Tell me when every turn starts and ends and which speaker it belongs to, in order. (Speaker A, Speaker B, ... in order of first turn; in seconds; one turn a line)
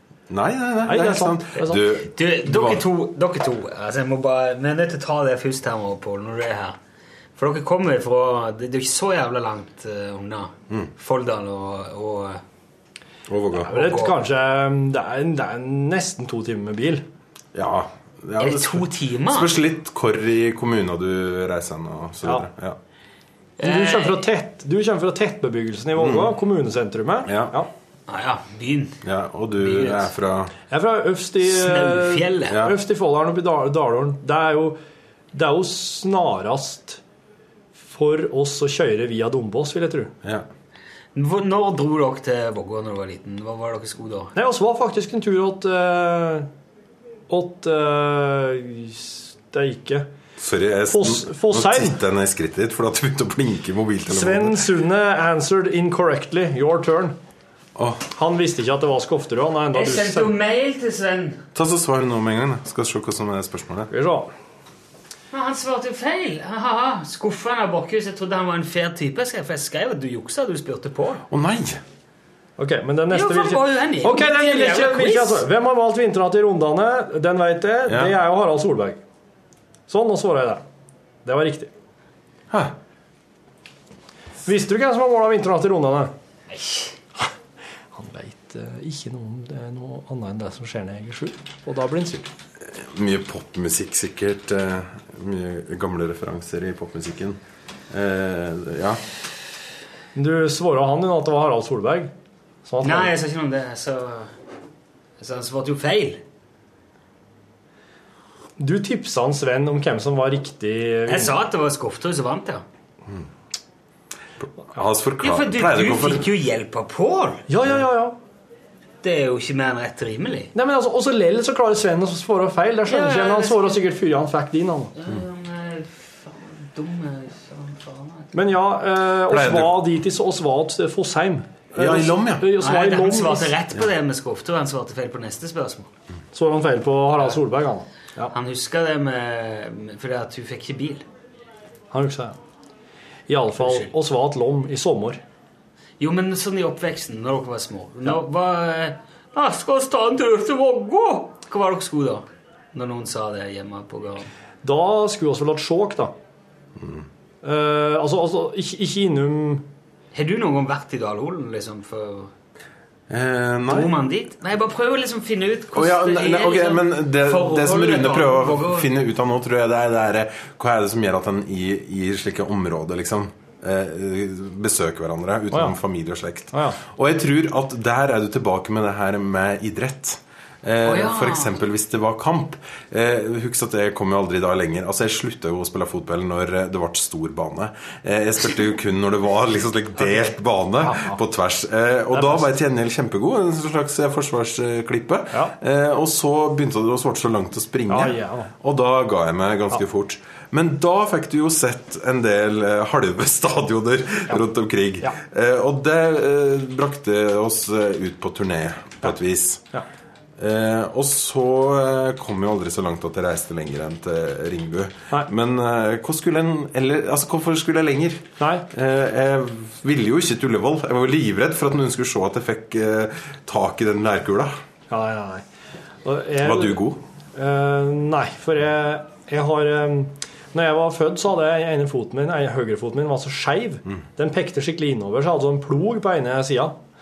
Speaker A: 0.3-2.9
Speaker B: 0.8-1.8
Speaker C: 2.1-6.8
Speaker C: 7.3-12.4
Speaker A: 13.3-13.7
Speaker B: 13.5-17.1
Speaker C: 13.7-14.1
Speaker A: 17.5-22.8
Speaker C: 18.4-19.6
Speaker C: 23.6-24.2
Speaker B: 23.6-27.7
Speaker A: 25.9-26.3
Speaker A: 27.2-27.6
Speaker C: 28.1-29.0
Speaker A: 29.0-30.5
Speaker C: 29.6-30.1
Speaker B: 30.7-34.8
Speaker C: 31.4-32.6
Speaker A: 32.5-32.8
Speaker B: 35.3-37.0
Speaker B: 37.8-40.1
Speaker C: 41.1-44.3
Speaker B: 44.3-46.5
Speaker B: 47.3-50.1
Speaker A: 50.4-54.6
Speaker B: 50.9-52.0
Speaker B: 54.0-57.2
Speaker A: 57.8-58.0
Speaker B: 58.1-60.3
Speaker C: 59.7-61.4
Speaker A: 61.5-63.9
Speaker B: 63.9-64.3
Speaker C: 65.3-71.2
Speaker A: 71.3-71.8
Speaker B: 72.6-79.0
Speaker C: 73.1-75.4
Speaker A: 77.9-78.1
Speaker B: 79.9-80.6
Speaker B: 81.2-81.7
Speaker B: 84.4-86.1
Speaker C: 86.5-86.9
Speaker B: 87.9-92.3
Speaker A: 92.6-97.4
Speaker A: 97.9-99.0
Speaker B: 100.1-102.1
Speaker B: 102.6-103.1
Speaker C: 102.8-104.3
Speaker C: 105.2-106.2
Speaker B: 108.6-111.3
Speaker C: 111.0-112.6
Speaker A: 114.4-116.3
Speaker C: 115.2-117.5
Speaker B: 117.5-118.2
Speaker C: 119.0-120.5
Speaker B: 120.5-124.9
Speaker C: 122.8-123.8
Speaker C: 125.0-128.3
Speaker B: 128.3-133.6
Speaker A: 129.2-129.8
Speaker A: 131.8-132.5
Speaker C: 132.6-135.9
Speaker B: 136.3-138.3
Speaker C: 138.3-141.1
Speaker B: 141.9-142.4
Speaker B: 143.3-145.2
Speaker C: 143.6-143.9
Speaker C: 146.0-154.3
Speaker B: 154.6-156.1
Speaker A: 156.8-157.1
Speaker B: 157.4-159.7
Speaker C: 160.1-162.3
Speaker A: 163.1-163.9
Speaker C: 163.7-168.9
Speaker A: 165.7-209.6
Speaker B: 175.5-175.8
Speaker B: 176.5-176.8
Speaker C: 180.8-181.6
Speaker B: 190.8-191.2
Speaker B: 192.1-192.5
Speaker B: 197.9-198.5
Speaker A: 210.4-224.5
Speaker B: 218.4-218.7
Speaker B: 224.9-225.4
Speaker B: 226.0-236.8
Speaker A: 226.4-227.0